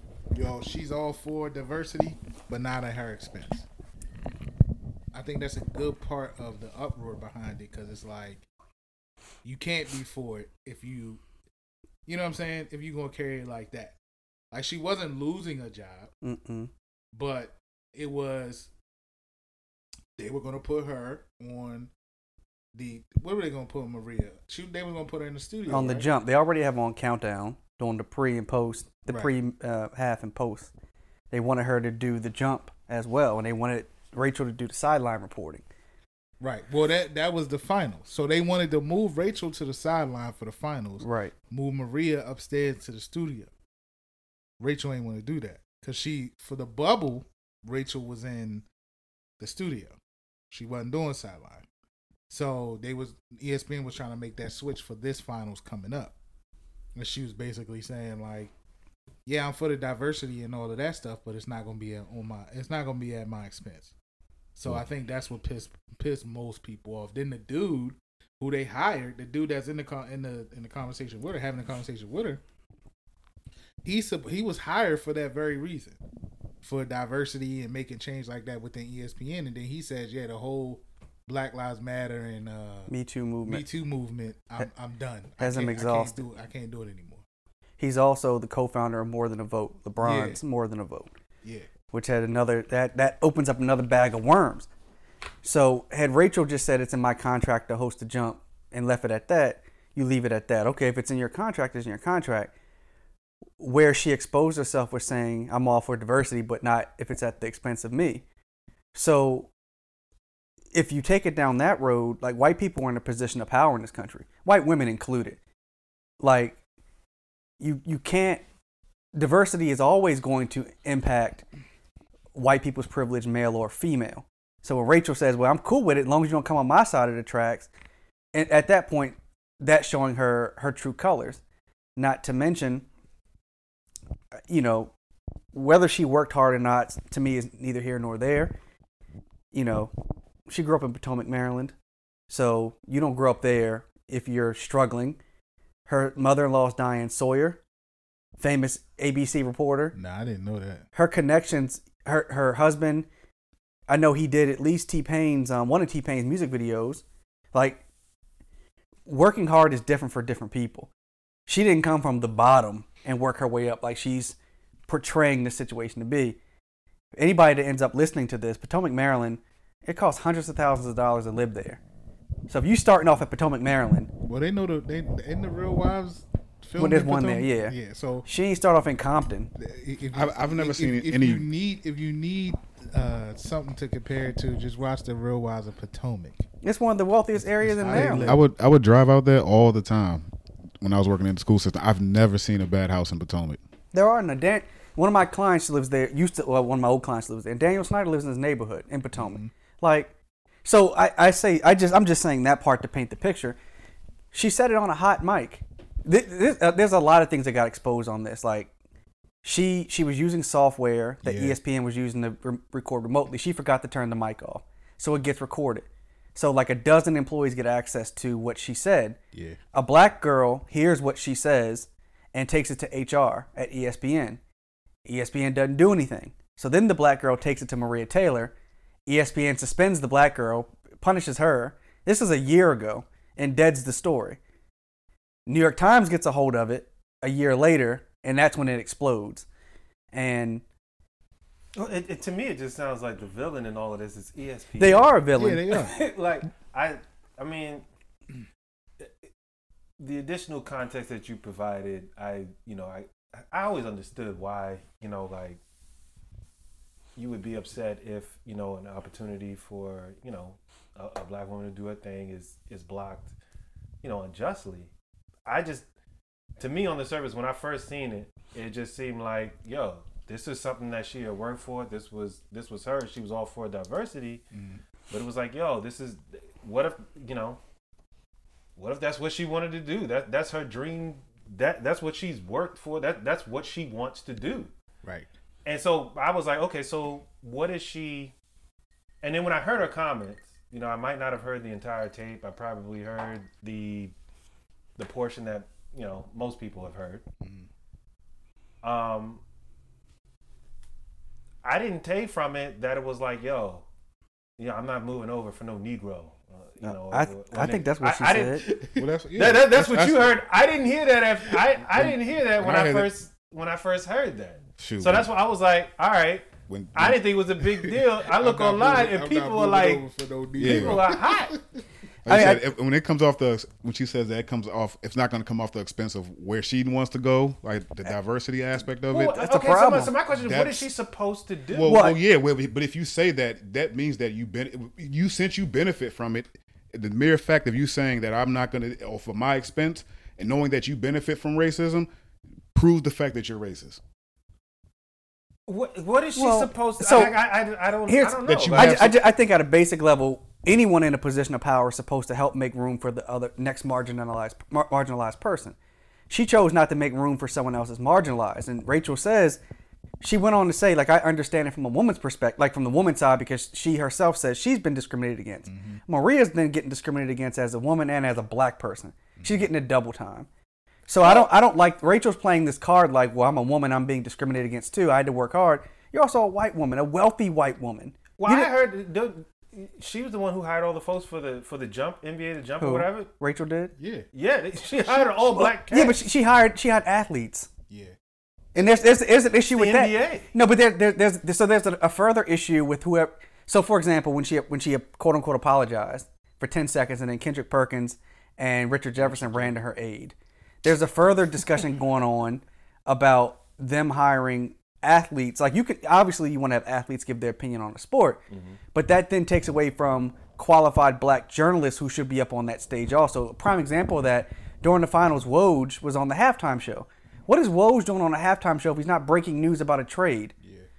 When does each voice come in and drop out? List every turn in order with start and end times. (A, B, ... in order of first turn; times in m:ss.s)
0:00.3-0:03.7 A
0:05.1-0:08.5 A
0:09.4-0:11.2 A
0:12.1-0:14.0 A
0:14.5-0:16.1 A
0:16.2-0:16.7 B
0:17.1-0:18.7 A
0:20.2-0:21.9 A
0:22.7-0:26.1 A
0:25.7-0:30.7 B
0:31.3-0:35.6 B
0:36.4-0:43.5 A
0:41.0-0:41.3 B
0:44.6-0:48.7 A
0:49.4-0:50.0 A
0:50.5-0:51.7 A
0:52.3-0:56.2 A
0:57.0-0:58.5 A
0:59.3-1:04.0 A
1:04.6-1:12.4 A
1:13.8-1:16.0 A
1:16.6-1:22.9 A
1:22.9-1:23.6 B
1:23.4-1:27.2 A
1:25.4-1:26.2 B
1:27.8-1:31.1 B
1:30.0-1:30.4 A
1:31.4-1:31.7 A
1:31.9-1:34.7 B
1:35.4-1:42.5 B
1:43.6-1:48.2 B
1:48.9-1:49.5 B
1:50.7-1:55.4 B
1:56.2-1:56.6 B
1:57.6-1:58.4 B
1:59.1-2:01.4 B
2:02.4-2:07.7 B
2:08.3-2:11.4 B
2:12.0-2:12.9 B
2:14.5-2:14.9 B
2:15.5-2:18.6 B
2:19.5-2:19.9 B
2:20.5-2:21.8 B
2:22.3-2:25.2 B
2:25.9-2:27.6 B
2:28.4-2:30.0 B
2:30.0-2:30.9 A
2:30.9-2:33.1 B
2:33.9-2:37.8 B
2:39.1-2:40.9 B
2:41.5-2:44.4 B
2:44.9-2:46.4 B
2:47.2-2:51.8 B
2:52.5-2:54.1 B
2:54.2-2:58.3 A
2:56.8-2:59.5 B
2:59.6-3:06.4 A
3:00.1-3:01.5 C
3:06.6-3:08.4 B
3:07.4-3:08.4 A
3:07.9-3:13.6 C
3:13.9-3:20.1 B
3:19.1-3:19.5 A
3:20.6-3:23.6 B
3:24.3-3:28.7 B
3:29.4-3:39.2 B
3:31.2-3:31.6 A
3:39.3-3:39.6 A
3:39.7-3:44.4 B
3:45.1-3:48.5 B
3:49.1-3:54.4 B
3:55.5-3:59.5 B
4:00.1-4:00.6 B
4:01.8-4:05.1 D
4:04.8-4:05.7 B
4:05.4-4:06.0 A
4:05.7-4:07.8 D
4:09.0-4:09.2 D
4:10.0-4:15.6 D
4:17.2-4:23.4 D
4:24.0-4:24.9 D
4:25.4-4:25.9 D
4:26.6-4:34.4 D
4:34.5-4:34.8 A
4:35.1-4:37.6 D
4:38.8-4:44.7 D
4:45.0-4:45.3 A
4:45.6-4:48.4 D
4:49.2-4:54.1 D
4:55.0-4:57.2 D
4:57.4-4:57.7 A
4:58.8-4:59.4 D
5:01.6-5:03.9 D
5:04.6-5:08.7 D
5:06.8-5:08.7 B
5:08.6-5:09.1 A
5:09.0-5:10.4 C
5:09.4-5:20.0 D
5:11.9-5:13.1 C
5:14.8-5:15.3 C
5:16.7-5:17.2 C
5:18.2-5:21.8 A
5:20.6-5:21.0 C
5:20.6-5:21.6 D
5:22.2-5:29.4 C
5:22.3-5:22.6 B
5:29.1-5:32.0 D
5:29.4-5:30.1 B
5:30.3-5:30.9 C
5:31.7-5:42.1 C
5:31.8-5:32.2 B
5:42.7-5:44.0 C
5:45.7-5:49.0 D
5:46.4-5:47.4 B
5:48.1-5:55.8 B
5:48.4-5:49.2 C
5:56.3-5:59.6 B
6:00.2-6:10.5 B
6:05.7-6:06.0 A
6:09.4-6:09.7 A
6:11.1-6:18.7 B
6:11.2-6:11.5 D
6:18.4-6:23.3 D
6:22.8-6:24.0 B
6:24.0-6:24.3 A
6:24.3-6:26.2 D
6:25.5-6:27.7 B
6:27.9-6:28.2 A
6:28.8-6:48.4 B
6:28.8-6:29.1 D
6:29.6-6:30.5 D
6:48.5-6:48.8 D
6:48.9-7:00.5 B
7:00.6-7:00.9 A